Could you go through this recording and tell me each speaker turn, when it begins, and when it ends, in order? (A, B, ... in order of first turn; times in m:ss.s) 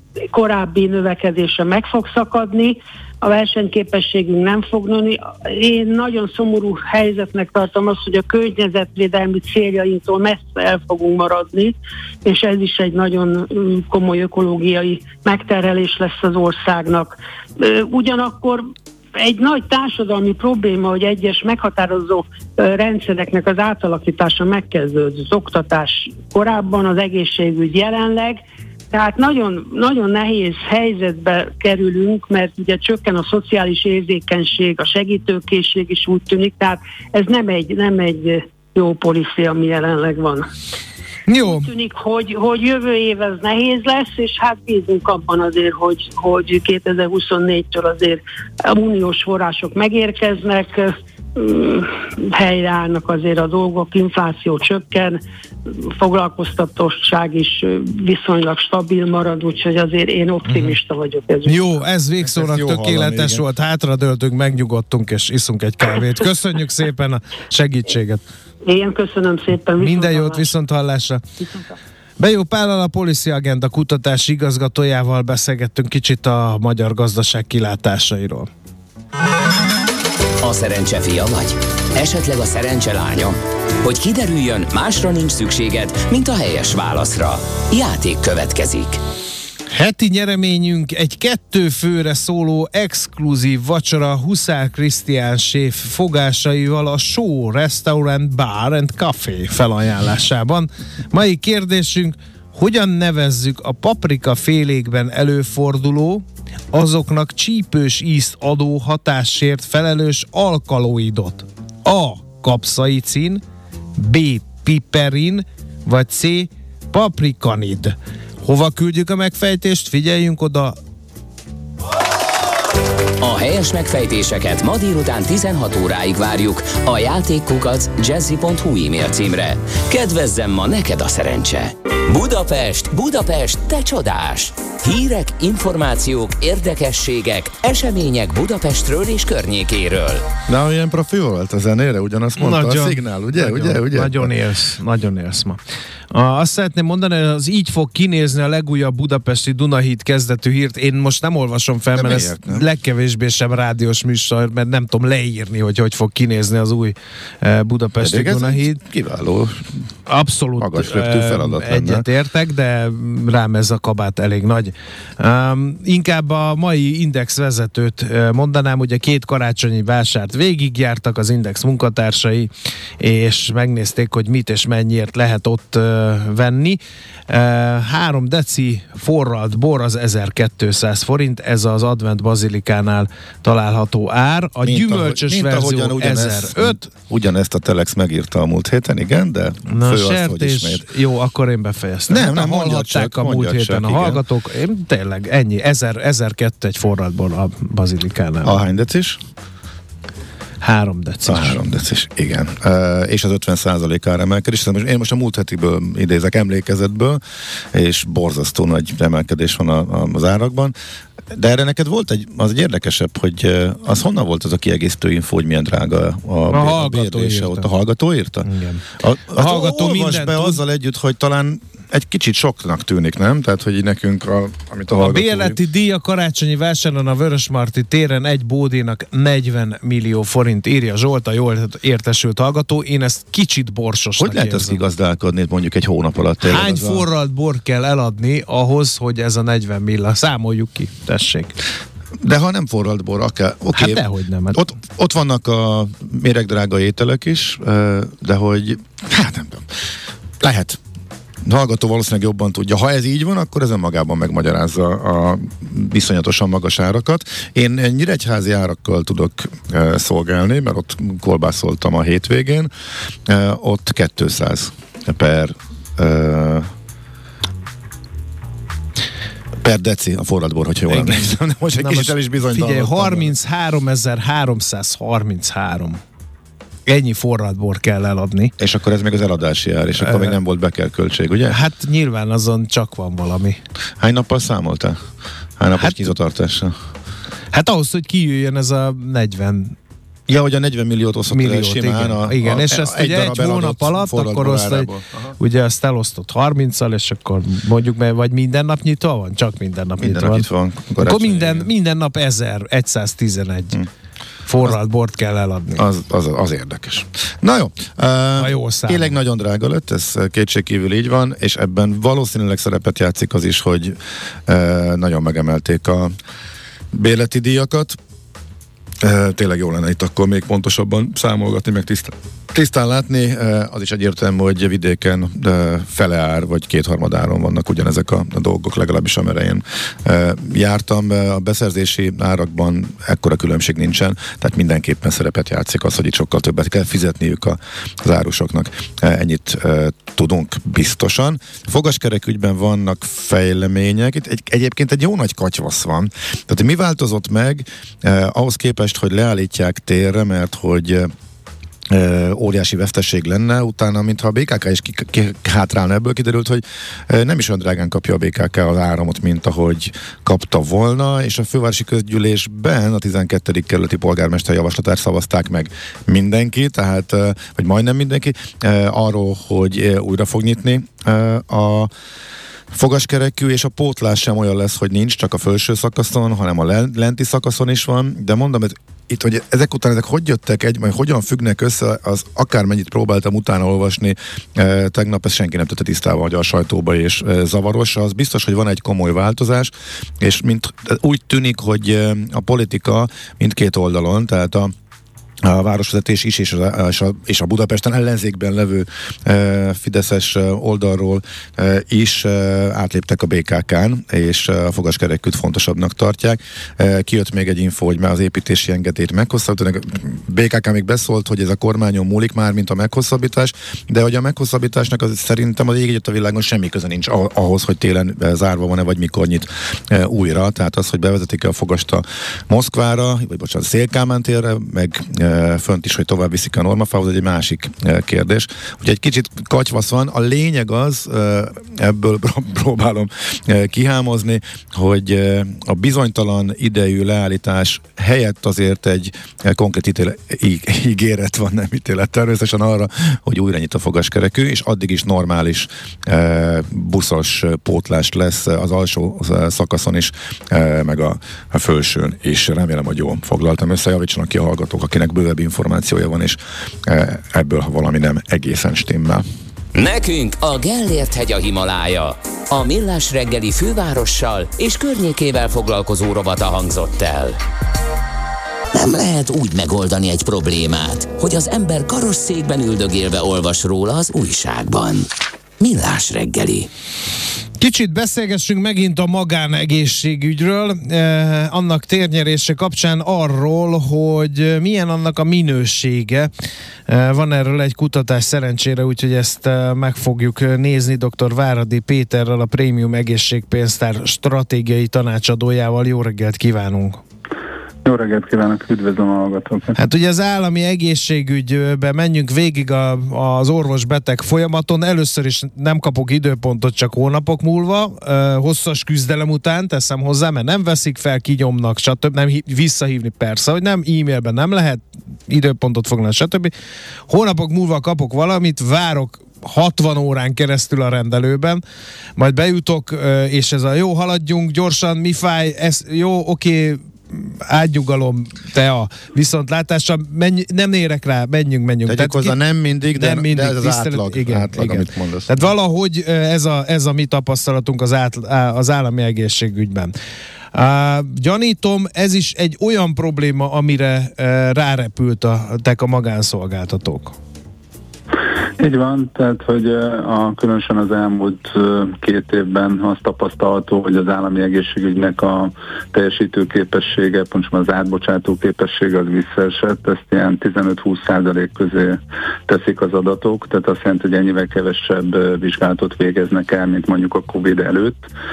0:00.3-0:28.4 A
0:28.9-0:40.5 A
0:41.3-0:41.7 B
0:41.4-1:01.7 A
1:00.5-1:00.8 B
1:01.4-1:08.2 B
1:02.2-1:03.5 C
1:08.6-1:10.5 A
1:09.8-1:11.2 B
1:12.2-1:18.5 B
1:20.4-1:29.0 D
1:29.7-1:53.4 B
1:54.0-2:00.8 B
2:03.2-2:20.2 D
2:20.5-2:24.3 C
2:22.4-2:25.6 B
2:26.1-2:38.8 B
2:31.9-2:32.6 C
2:38.0-2:39.6 C
2:40.1-3:06.9 B
2:40.6-2:42.0 C
3:04.6-3:10.8 C
3:09.7-3:18.6 B
3:12.1-3:14.2 C
3:18.4-3:19.2 C
3:20.6-3:21.6 B
3:21.3-3:27.2 C
3:27.7-3:30.7 C
3:31.3-3:38.5 C
3:36.5-3:37.7 B
3:38.4-3:40.6 B
3:39.0-3:45.6 C
3:44.9-3:54.8 B
3:54.2-3:57.1 C
3:56.4-4:01.6 B
4:02.2-4:09.7 C
4:03.8-4:04.6 B
4:10.4-4:10.8 C
4:11.4-4:22.7 C
4:23.3-4:26.7 C
4:29.6-4:33.3 C
4:30.9-4:36.0 B
4:36.9-4:38.5 B
4:38.6-4:41.6 C
4:40.0-4:40.4 B
4:41.5-4:43.6 B
4:44.0-4:45.0 C
4:45.6-4:46.8 C
4:45.8-4:46.1 B
4:47.5-4:49.8 B
4:50.3-4:55.3 C
4:51.3-4:54.9 B
4:55.4-5:00.5 B
5:00.0-5:01.7 C
5:01.0-5:03.8 B
5:04.5-5:05.8 B
5:05.7-5:16.1 C
5:08.4-5:09.2 B
5:16.9-5:18.0 C
5:19.0-5:51.1 C
5:51.9-6:11.9 C
6:12.7-6:34.7 C
6:35.4-7:39.2 C
7:39.8-7:47.4 D
7:48.7-7:56.7 D
7:57.6-8:06.3 B
8:06.9-8:17.0 B
8:17.8-8:19.8 E
8:19.8-8:36.5 B
8:37.1-8:41.6 B
8:42.2-8:52.4 B
8:51.9-8:55.4 C
8:53.0-8:59.9 B
9:00.5-9:07.2 B
9:08.6-9:28.1 E